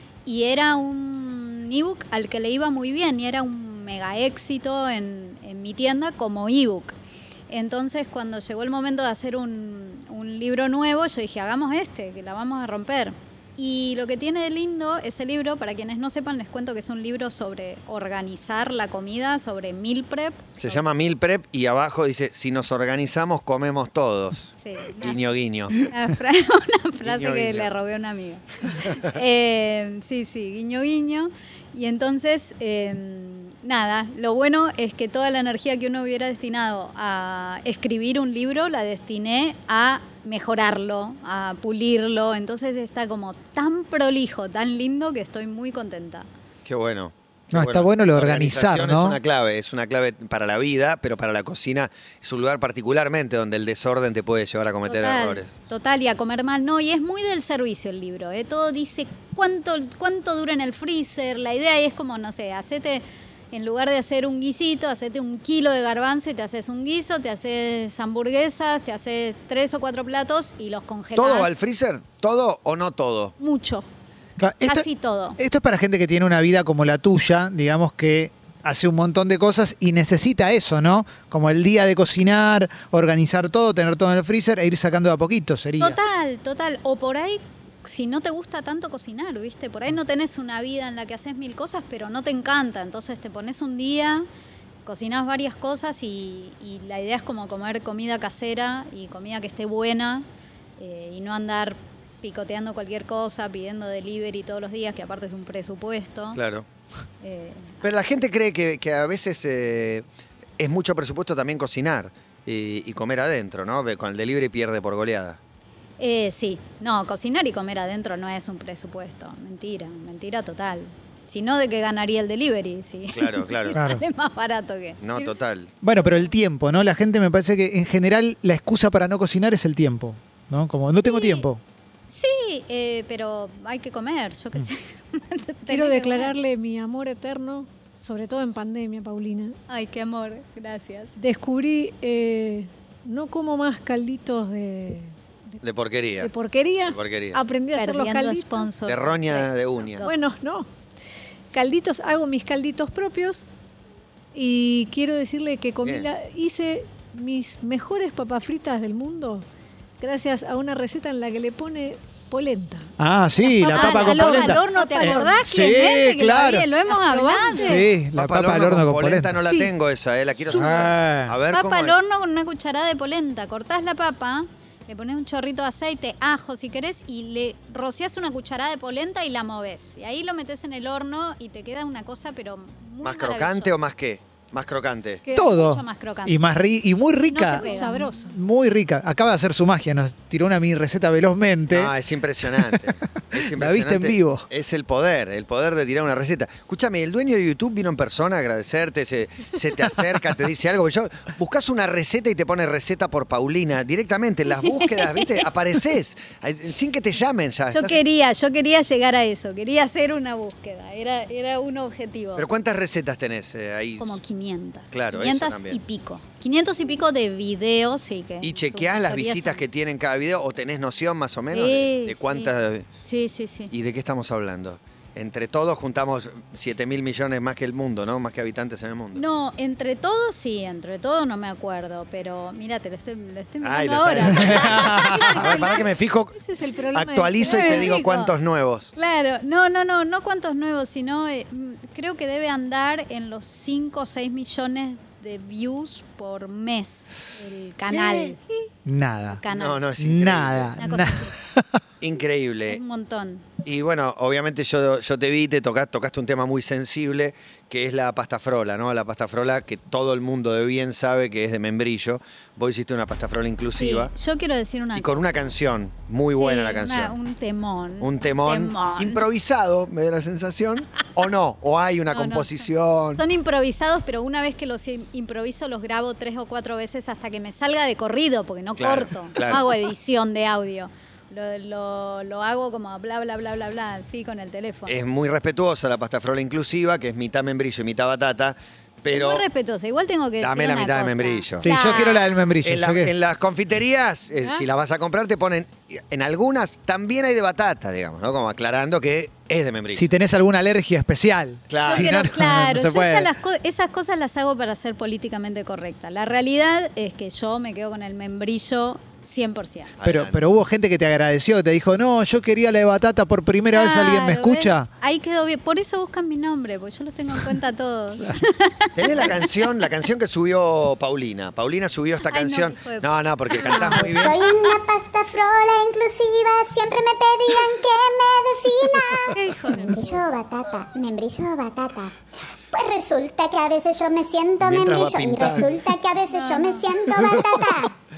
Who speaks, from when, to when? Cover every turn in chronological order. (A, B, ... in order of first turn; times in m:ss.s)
0:00.2-0:07.0 A
0:07.5-0:20.8 A
0:20.6-0:25.8 B
0:24.6-0:25.2 A
0:25.7-0:46.3 A
0:27.0-0:27.7 B
0:46.6-0:55.5 B
0:47.5-0:49.2 C
0:54.9-1:11.6 A
1:11.2-1:13.3 B
1:13.4-1:13.9 A
1:14.4-1:26.0 C
1:14.6-1:15.4 A
1:25.8-1:34.2 A
1:34.8-1:40.2 A
1:40.8-1:46.4 A
1:46.3-1:46.6 B
1:47.2-1:47.8 A
1:47.8-1:50.0 B
1:50.6-1:55.4 B
1:56.0-2:05.3 A
2:03.1-2:03.8 B
2:03.8-2:04.0 C
2:05.0-2:05.7 B
2:05.8-2:11.6 C
2:11.0-2:11.4 A
2:12.1-2:16.4 A
2:15.7-2:19.6 D
2:19.7-2:21.2 A
2:21.2-2:25.6 D
2:25.6-2:26.3 B
2:26.2-2:28.7 D
2:26.9-2:27.4 B
2:27.8-2:30.2 A
2:28.9-2:30.0 B
2:30.0-2:30.7 D
2:31.5-2:33.5 D
2:34.3-2:39.4 D
2:40.0-2:42.9 D
2:43.0-2:46.7 C
2:43.4-2:45.4 D
2:43.7-2:47.8 A
2:46.9-2:47.9 D
2:47.6-2:49.4 C
2:48.1-2:52.0 B
2:49.4-2:49.7 D
2:50.5-2:50.8 D
2:50.5-2:51.3 C
2:51.5-3:03.7 A
3:03.0-3:05.2 B
3:05.2-3:06.4 A
3:05.3-3:11.9 C
3:07.3-3:08.1 A
3:07.5-3:08.4 D
3:11.7-3:28.0 B
3:12.6-3:14.5 C
3:24.6-3:25.5 A
3:27.7-3:32.5 A
3:32.4-3:34.2 B
3:34.0-3:39.6 A
3:34.9-3:35.8 B
3:38.4-3:42.9 B
3:41.5-3:42.5 A
3:43.0-3:43.7 A
3:43.7-3:49.2 B
3:49.1-3:55.8 A
3:53.6-3:56.3 B
3:54.4-3:55.2 C
3:56.3-3:57.9 D
3:56.9-3:58.9 B
3:57.4-3:58.3 A
3:59.0-4:08.4 A
4:07.9-4:08.3 B
4:08.9-4:09.4 C
4:09.3-4:09.8 A
4:09.5-4:10.8 B
4:10.0-4:11.8 C
4:10.8-4:11.3 A
4:12.0-4:12.8 B
4:12.7-4:13.5 A
4:13.6-4:24.1 B
4:23.8-4:25.2 A
4:24.9-4:27.1 B
4:26.4-4:29.2 A
4:28.0-4:33.2 B
4:32.1-4:45.0 A
4:38.8-4:39.6 B
4:44.9-4:49.4 B
4:49.1-4:52.3 A
4:50.4-4:52.0 B
4:51.6-4:53.1 C
4:52.6-5:00.0 B
4:59.9-5:03.3 C
5:01.7-5:02.3 B
5:01.8-5:09.9 A
5:10.0-5:10.4 B
5:10.0-5:14.9 C
5:13.7-5:19.5 A
5:19.0-5:24.4 B
5:22.3-5:24.4 A
5:23.8-5:37.9 E
5:29.3-5:30.2 A
5:34.6-5:35.8 B
5:36.3-5:36.9 A